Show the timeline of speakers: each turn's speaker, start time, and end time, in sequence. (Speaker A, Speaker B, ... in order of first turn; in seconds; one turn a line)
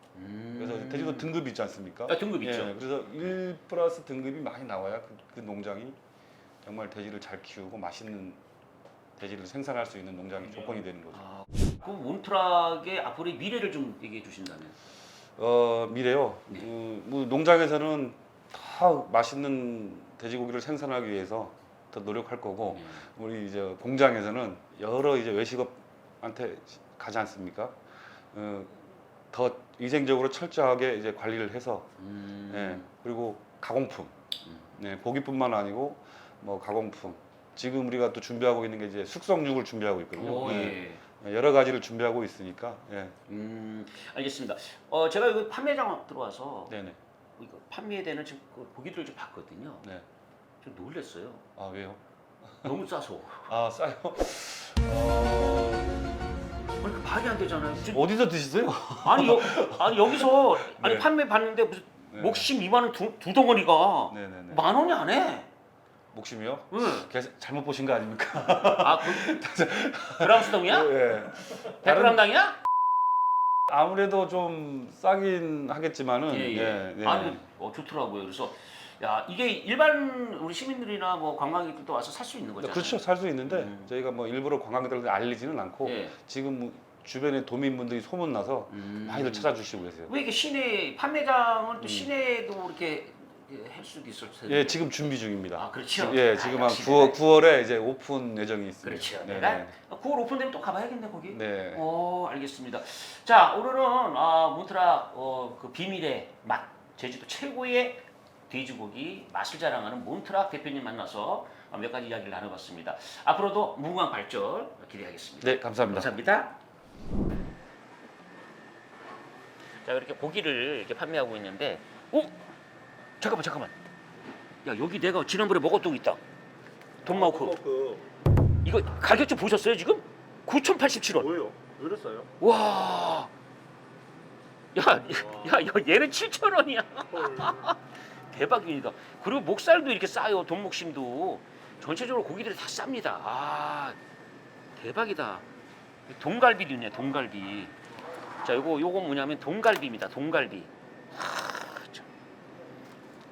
Speaker A: 0.1-1.3
Speaker B: 0.6-6.0
Speaker A: 2.1-2.7
Speaker B: 6.6-8.4
Speaker B: 9.2-11.2
Speaker A: 11.2-14.8
Speaker B: 15.4-27.8
Speaker A: 22.7-23.1
Speaker B: 28.3-31.9
Speaker A: 32.0-32.9
Speaker B: 32.5-34.1
Speaker A: 34.4-34.7
Speaker B: 34.8-43.1
Speaker A: 40.2-41.0
Speaker A: 43.3-46.8
Speaker B: 46.7-47.0
Speaker A: 47.4-49.9
Speaker A: 50.6-51.4
Speaker B: 51.6-52.0
Speaker A: 52.6-53.5
Speaker B: 53.5-56.2
Speaker A: 56.8-58.1
Speaker B: 57.9-61.1
Speaker A: 59.0-65.5
Speaker B: 62.1-62.5
Speaker B: 64.1-64.7
Speaker B: 66.1-72.2
Speaker A: 66.7-67.1
Speaker A: 68.7-69.4
Speaker A: 70.2-71.0
Speaker A: 71.8-72.6
Speaker B: 73.7-77.4
Speaker A: 76.3-83.9
Speaker B: 82.6-90.1
Speaker A: 85.8-86.2
Speaker A: 88.7-89.5
Speaker A: 90.1-94.8
Speaker B: 91.8-92.1
Speaker B: 94.5-99.7
Speaker A: 95.5-97.2
Speaker A: 98.8-116.6
Speaker B: 101.3-101.8
Speaker B: 115.4-116.1
Speaker A: 119.8-122.3
Speaker A: 123.2-123.8
Speaker A: 124.7-126.2
Speaker A: 127.0-127.6
Speaker C: 127.0-128.0
Speaker A: 128.6-131.3
Speaker C: 131.2-132.3
Speaker A: 132.4-133.3
Speaker A: 134.8-144.0
Speaker A: 144.8-145.4
Speaker A: 146.1-147.7
Speaker A: 148.4-152.1